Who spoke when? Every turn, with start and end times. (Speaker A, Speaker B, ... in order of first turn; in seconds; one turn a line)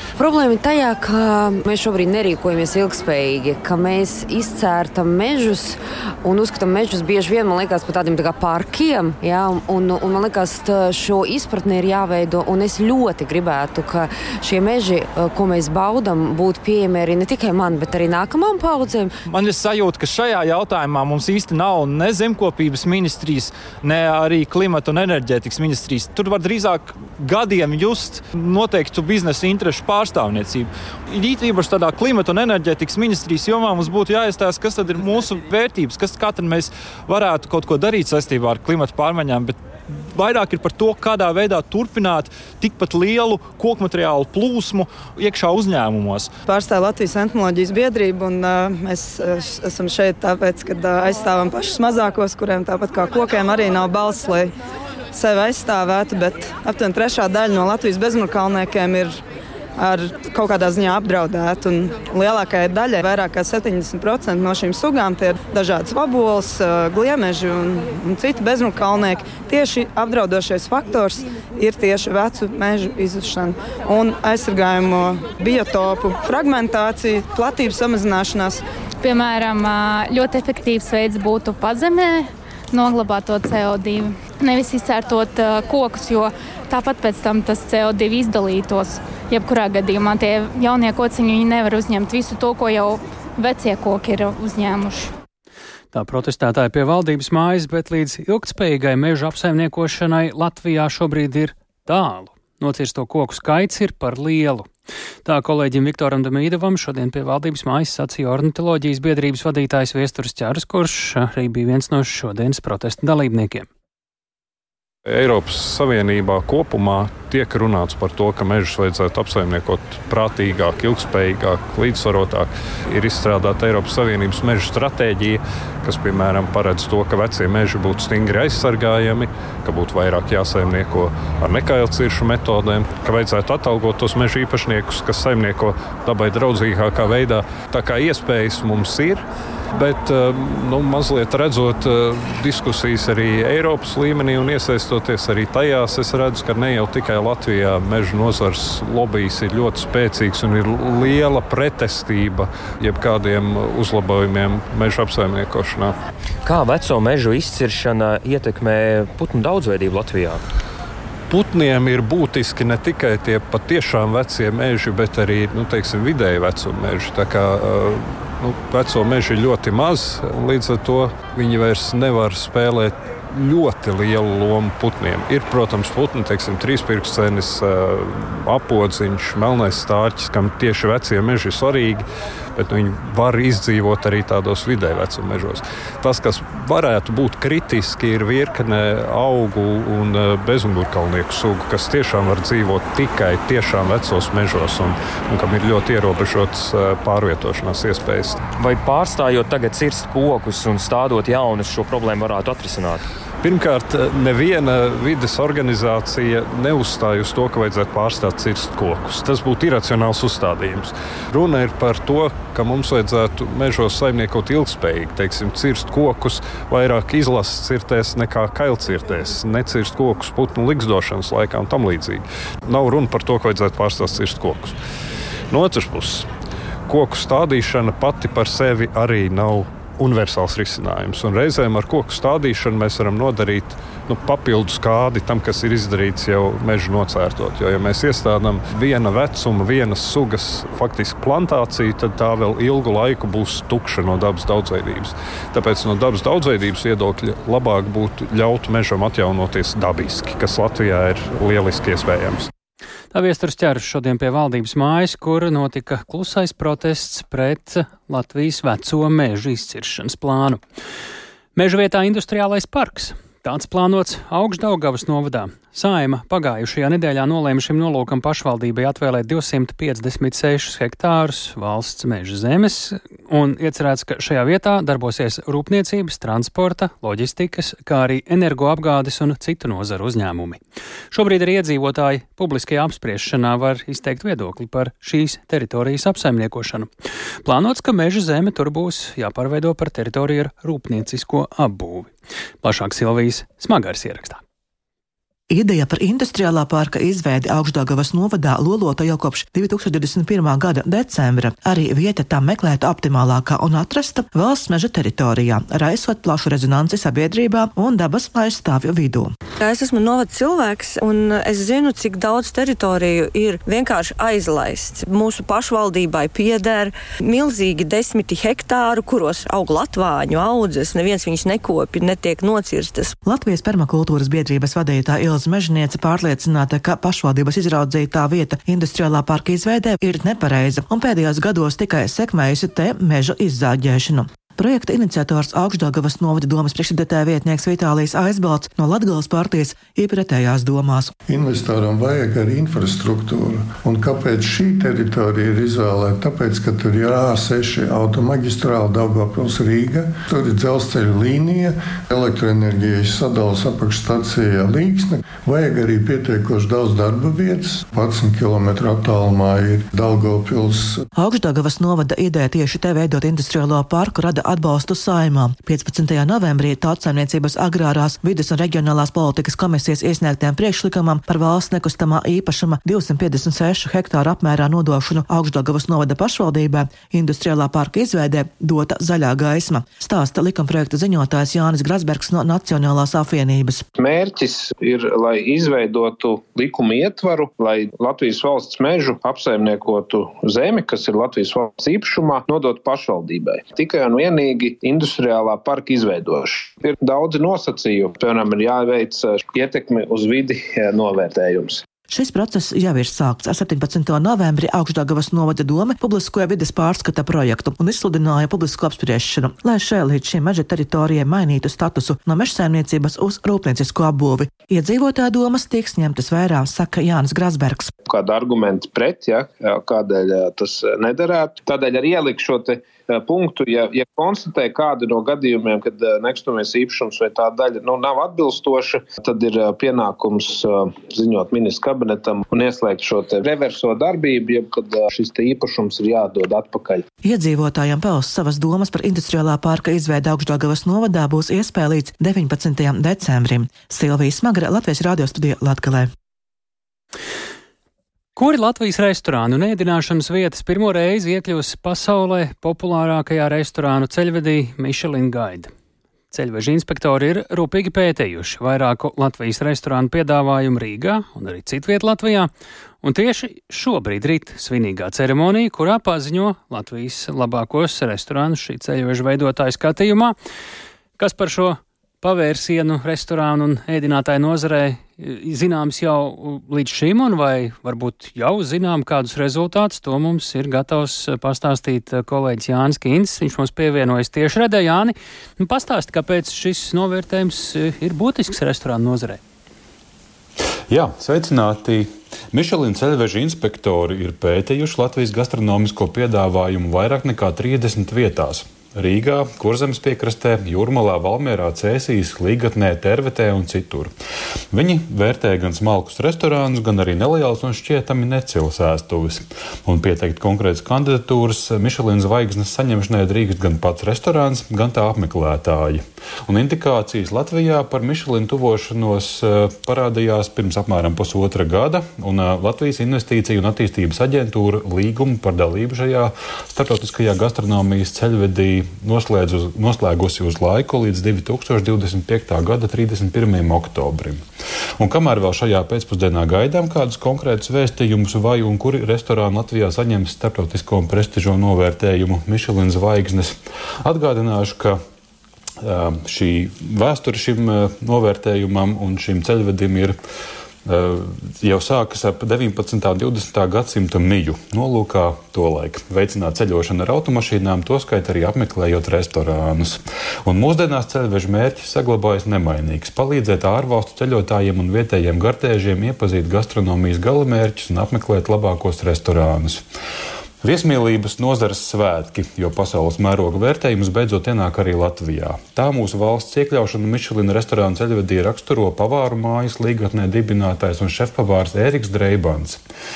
Speaker A: 0.1-19.1
Speaker B: 19.2-46.3
Speaker C: 46.5-54.5
Speaker C: 55.1-59.2
Speaker C: 59.8-78.6
Speaker D: 79.0-95.1
Speaker E: 95.9-104.7
Speaker E: 105.2-113.7
Speaker F: 115.0-155.9
Speaker G: 156.4-160.4
Speaker F: 161.3-182.0
Speaker F: 182.5-198.4
Speaker G: 198.5-203.0
Speaker F: 203.4-224.8
Speaker F: 225.5-226.3
Speaker F: 226.9-252.5
Speaker E: 253.1-260.6
Speaker E: 261.5-280.6
Speaker E: 281.1-286.9
Speaker E: 287.4-294.4
Speaker H: 295.5-309.3
Speaker I: 309.6-323.1
Speaker H: 323.2-341.1
Speaker J: 341.3-361.0
Speaker H: 361.1-383.9
Speaker K: 384.0-401.8
Speaker H: 402.1-417.9
Speaker K: 418.1-437.0
Speaker H: 437.2-446.1
Speaker E: 448.4-455.7
Speaker E: 456.3-462.5
Speaker E: 463.0-470.3
Speaker E: 471.2-489.4
Speaker L: 490.9-504.1
Speaker L: 504.7-534.4
Speaker L: 535.0-545.0
Speaker L: 545.8-550.2
Speaker L: 550.9-569.8
Speaker L: 570.6-582.8